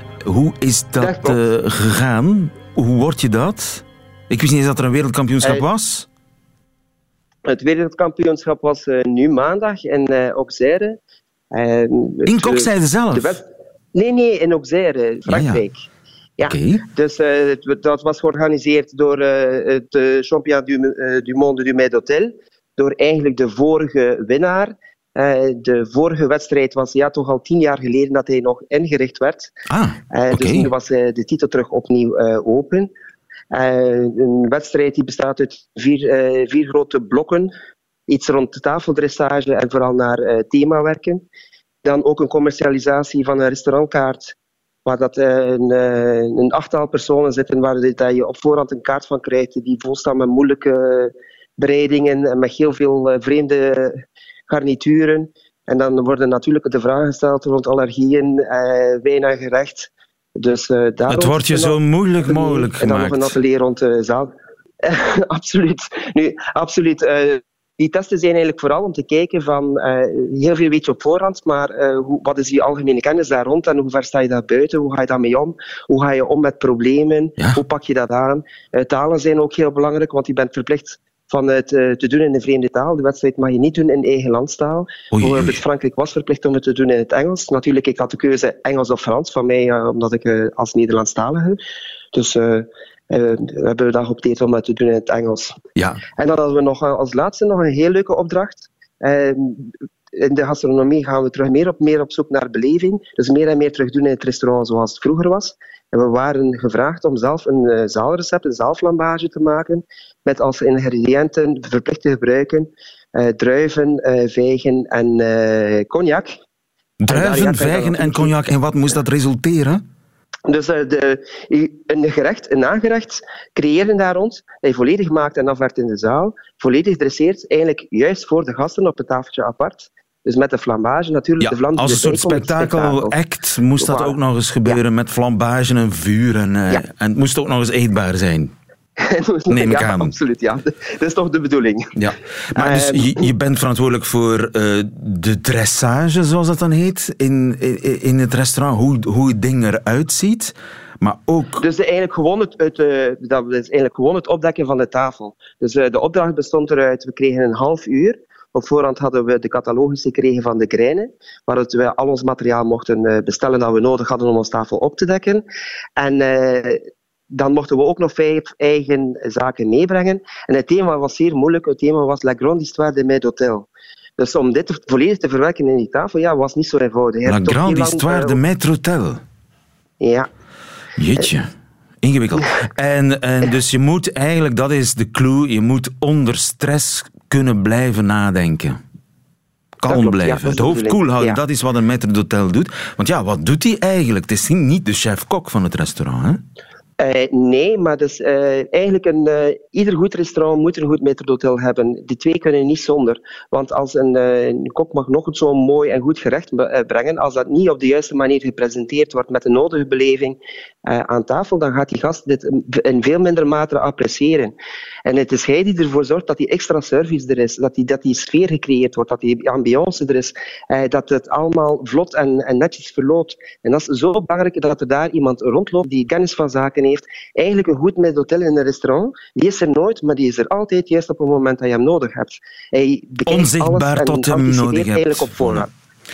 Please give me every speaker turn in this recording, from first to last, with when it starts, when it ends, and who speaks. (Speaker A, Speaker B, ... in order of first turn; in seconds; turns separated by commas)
Speaker A: 0.2-6.0, Speaker B: 1.0-1.4, Speaker B: 7.4-11.0, Speaker B: 11.5-15.8, Speaker A: 12.2-13.4, Speaker A: 15.3-15.6, Speaker B: 16.4-29.5, Speaker A: 16.4-16.8, Speaker A: 29.7-30.7, Speaker B: 30.1-32.9, Speaker B: 33.5-37.5, Speaker B: 38.1-41.2, Speaker B: 41.8-44.3, Speaker B: 44.9-64.3, Speaker A: 61.1-63.3, Speaker B: 64.8-91.6, Speaker A: 85.1-85.6, Speaker B: 92.1-95.6, Speaker A: 95.8-96.0, Speaker B: 96.2-116.3, Speaker A: 117.0-119.8, Speaker B: 117.1-118.3, Speaker B: 120.5-133.1, Speaker A: 131.4-138.5, Speaker B: 133.8-134.8, Speaker B: 139.0-141.9, Speaker A: 139.5-140.1, Speaker A: 142.0-151.6, Speaker B: 142.5-143.3, Speaker B: 151.6-165.4, Speaker B: 166.0-173.7, Speaker B: 174.2-178.4, Speaker A: 177.2-179.2, Speaker B: 180.0-180.3, Speaker A: 181.0-181.5, Speaker A: 182.0-188.8, Speaker A: 189.8-196.4, Speaker B: 189.9-191.4, Speaker B: 197.0-214.5, Speaker B: 215.1-235.7, Speaker A: 233.3-235.7